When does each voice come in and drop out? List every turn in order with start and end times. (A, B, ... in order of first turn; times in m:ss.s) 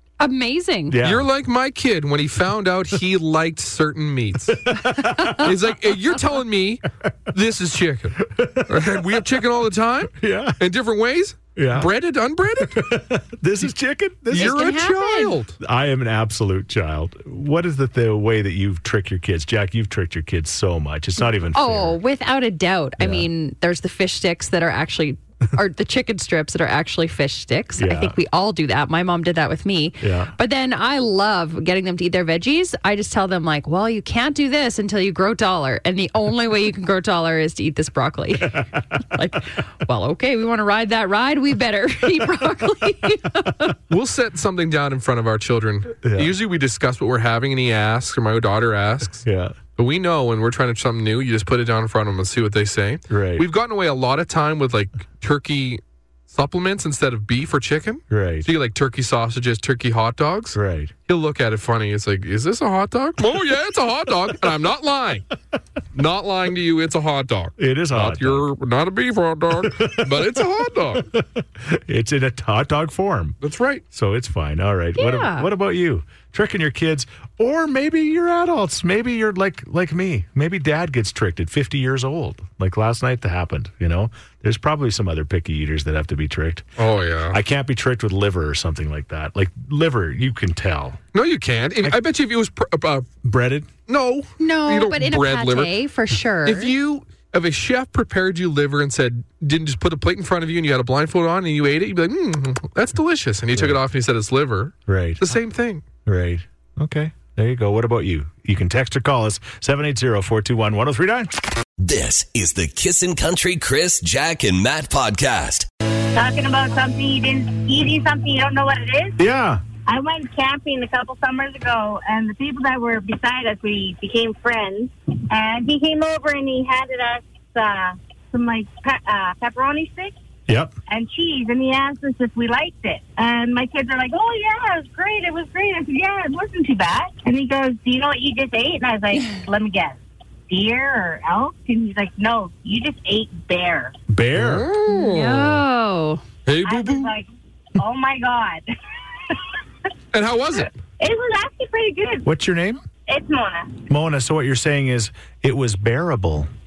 0:00.2-0:01.0 A
0:00.9-0:01.3 B
0:01.0-0:04.7 C
0:04.7-0:05.5 B
0:04.8-0:05.4 A
0:05.3-0:12.9 C
0:08.2-0:09.2 B
0:10.2-0:10.6 B
0:11.6-0:11.9 B
0:12.6-0:14.9 B
0:14.3-0:15.6 C
0:14.3-0:15.4 A
0:15.6-0:22.0 B
0:21.5-0:43.7 A
0:23.0-0:23.3 B
0:27.8-0:28.2 B
0:30.0-0:30.3 B
0:43.9-0:49.2 C
0:46.0-0:46.3 B
0:49.2-0:49.6 B
0:49.8-1:05.3 C
0:53.1-0:53.5 B
0:58.1-0:58.5 B
1:00.5-1:00.9 B
1:05.9-1:11.1 C
1:07.6-1:08.5 B
1:09.5-1:10.4 B
1:11.1-1:13.4 B
1:13.4-1:13.8 C
1:13.9-1:26.7 B
1:15.0-1:15.5 A
1:26.8-1:27.4 C
1:27.3-1:31.0 B
1:31.1-1:33.1 C
1:33.2-1:33.7 B
1:33.9-1:35.8 C
1:34.4-1:36.7 A
1:36.4-1:45.8 C
1:43.5-1:43.8 B
1:44.9-1:45.3 B
1:46.0-1:51.3 B
1:51.8-1:55.7 D
1:56.1-1:59.2 E
1:59.2-1:59.6 B
1:59.9-2:10.1 E
2:10.5-2:10.7 B
2:10.9-2:23.9 E
2:24.1-2:24.7 B
2:24.3-2:25.6 C
2:24.9-2:26.2 A
2:26.4-2:27.1 C
2:26.6-2:28.6 E
2:30.1-2:30.8 C
2:31.0-2:32.2 E
2:32.2-2:32.8 B
2:33.1-2:33.7 E
2:33.9-2:36.5 B